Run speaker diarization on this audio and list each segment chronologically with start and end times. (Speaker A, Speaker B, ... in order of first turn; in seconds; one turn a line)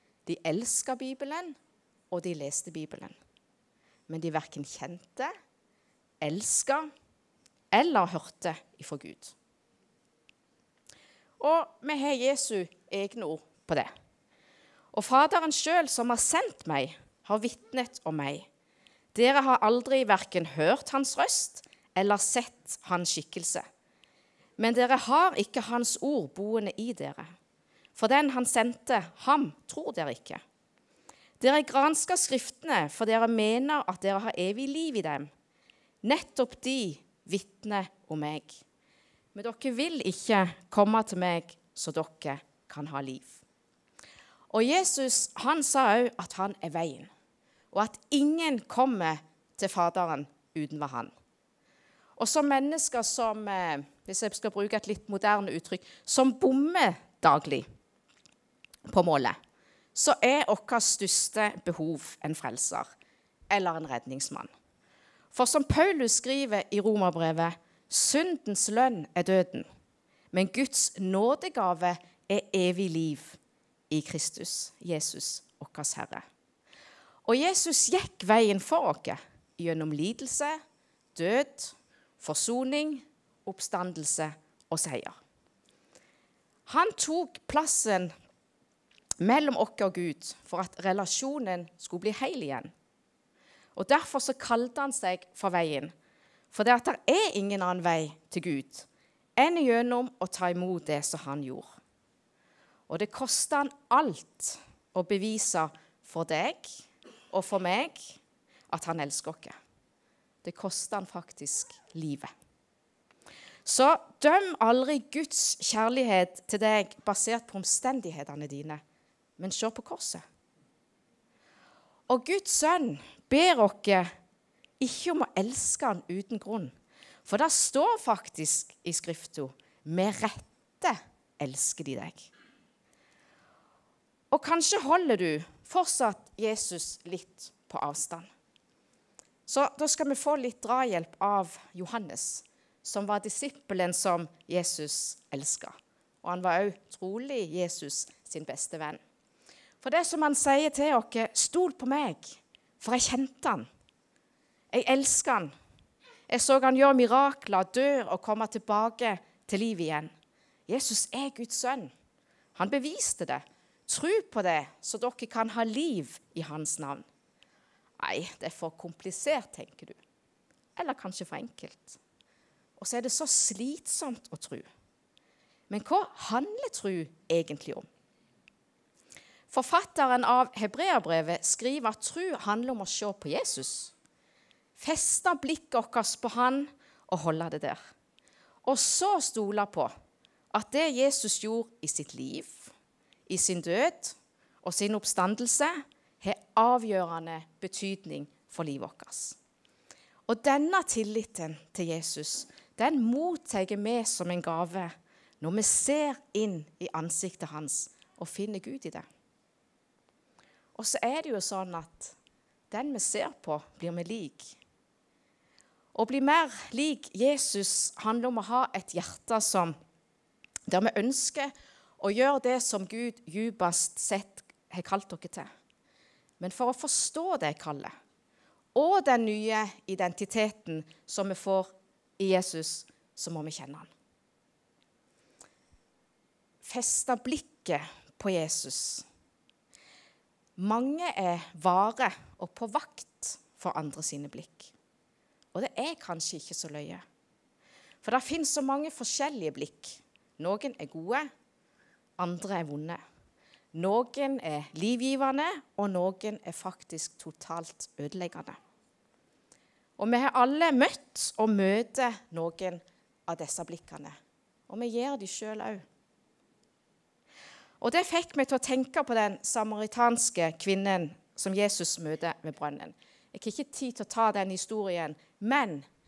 Speaker A: 0.2-1.6
Speaker A: 2.1-3.2
Speaker A: 4.1-5.3
Speaker A: 6.2-6.9
Speaker A: 7.7-9.3
Speaker A: 11.4-13.9
Speaker A: 14.9-18.5
Speaker A: 19.1-23.6
Speaker A: 24.6-27.3
Speaker A: 27.9-30.4
Speaker A: 31.4-35.3
Speaker A: 36.0-38.6
Speaker A: 39.3-43.4
Speaker A: 44.5-47.1
Speaker A: 47.7-51.1
Speaker A: 52.2-57.6
Speaker A: 58.9-59.4
Speaker A: 59.9-62.9
Speaker A: 63.5-64.5
Speaker A: 65.3-69.7
Speaker A: 70.3-73.4
Speaker A: 73.9-76.2
Speaker A: 77.2-80.6
Speaker A: 81.1-85.2
Speaker A: 86.7-88.1
Speaker A: 89.2-92.7
Speaker A: 93.8-95.9
Speaker A: 96.5-101.7
Speaker A: 102.9-108.2
Speaker A: 108.7-109.5
Speaker A: 110.4-112.3
Speaker A: 113.6-118.8
Speaker A: 119.4-120.2
Speaker A: 122.1-124.1
Speaker A: 124.8-126.7
Speaker A: 127.2-132.3
Speaker A: 134.3-138.3
Speaker A: 139.4-149.0
Speaker A: 149.8-153.7
Speaker A: 154.7-155.5
Speaker A: 156.3-160.1
Speaker A: 160.7-161.9
Speaker A: 162.6-167.1
Speaker A: 168.0-170.0
Speaker A: 170.8-172.0
Speaker A: 172.8-174.7
Speaker A: 175.7-177.9
Speaker A: 179.5-183.9
Speaker A: 184.8-187.8
Speaker A: 188.6-189.9
Speaker A: 190.5-192.7
Speaker A: 193.3-199.4
Speaker A: 200.3-209.1
Speaker A: 210.8-212.1
Speaker A: 212.7-214.6
Speaker A: 215.9-219.8
Speaker A: 220.7-225.5
Speaker A: 226.4-227.9
Speaker A: 228.8-233.9
Speaker A: 236.6-239.1
Speaker A: 240.6-244.7
Speaker A: 245.5-247.0
Speaker A: 248.0-251.3
Speaker A: 252.2-253.0
Speaker A: 253.7-258.6
Speaker A: 260.0-264.1
Speaker A: 264.7-265.8
Speaker A: 267.8-275.9